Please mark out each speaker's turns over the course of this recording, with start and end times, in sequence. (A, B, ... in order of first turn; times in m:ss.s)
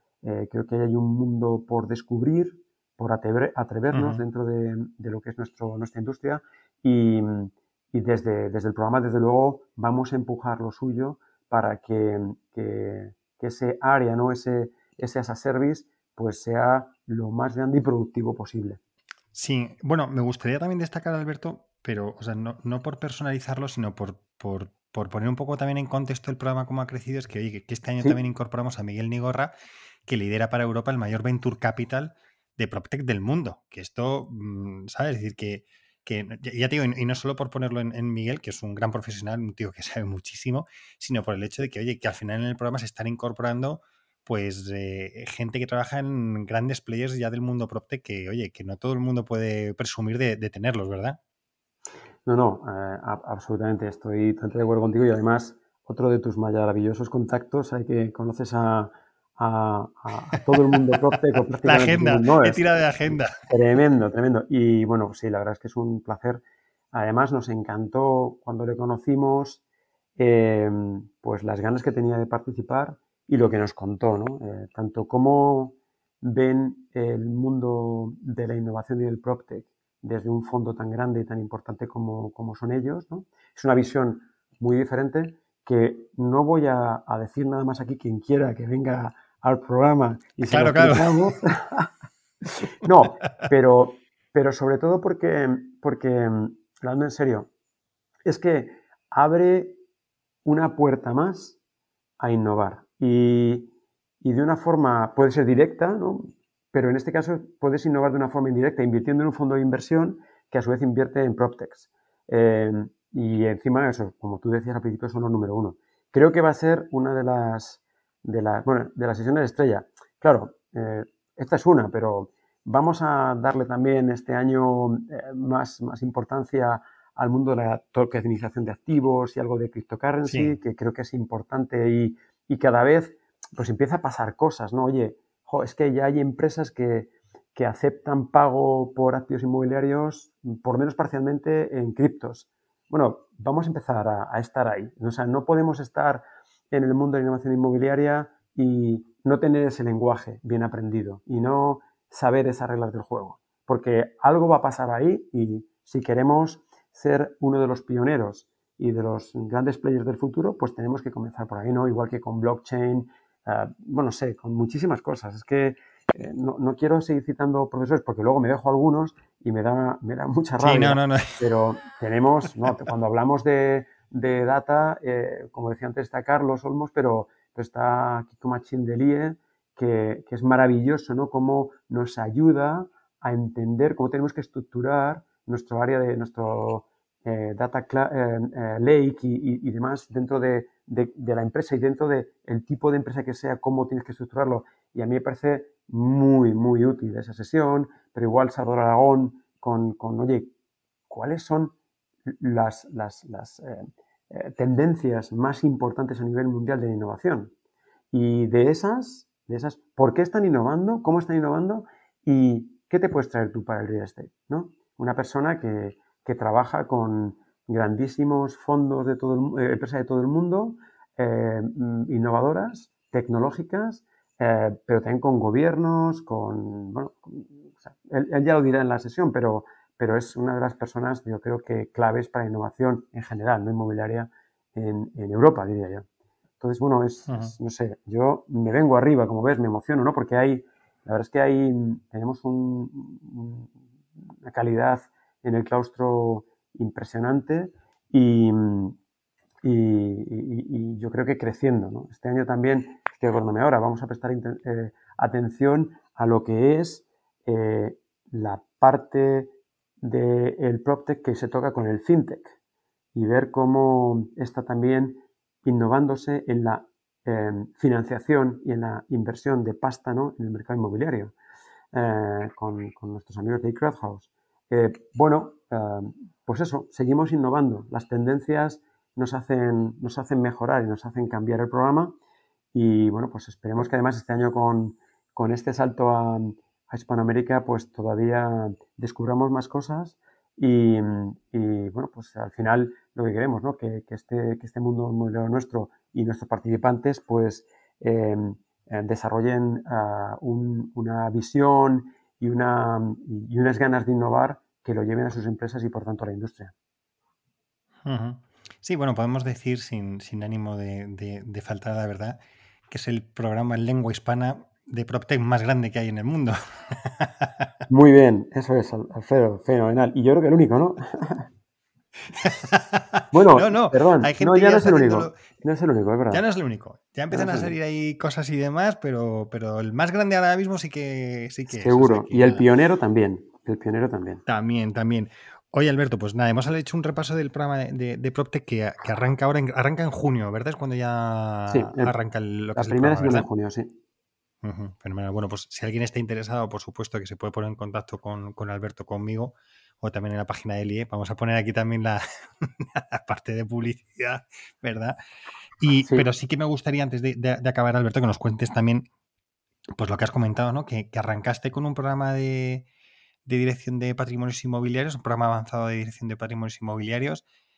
0:00.2-0:18.8 A
0:03.9-0:04.2 B
0:19.3-0:29.5 B
0:30.1-0:51.2 B
0:52.3-1:09.6 A
1:00.5-1:00.8 B
1:01.6-1:03.4 B
1:10.2-1:31.9 A
1:30.5-1:31.3 B
1:32.4-1:37.5 A
1:38.3-1:39.8 A
1:40.4-1:41.6 A
1:42.2-3:20.5 A
2:10.3-2:10.6 B
2:50.6-2:51.4 B
3:21.1-3:21.7 A
3:22.3-3:27.5 A
3:28.1-3:56.0 A
3:56.6-4:03.7 A
4:04.4-4:09.0 A
4:09.6-4:19.5 A
4:20.0-4:22.6 A
4:23.2-4:31.3 A
4:31.9-4:42.2 A
4:42.7-5:06.7 A
5:08.0-5:17.7 B
5:17.9-5:21.5 A
5:22.3-5:25.4 B
5:23.3-5:26.4 A
5:26.3-5:32.6 B
5:27.3-5:27.7 A
5:31.7-5:34.4 A
5:34.5-5:43.5 B
5:41.7-5:42.2 A
5:42.8-5:44.0 A
5:44.6-5:55.2 B
5:55.8-5:59.1 B
5:56.0-5:56.3 A
6:00.0-6:02.9 B
6:03.5-6:07.4 B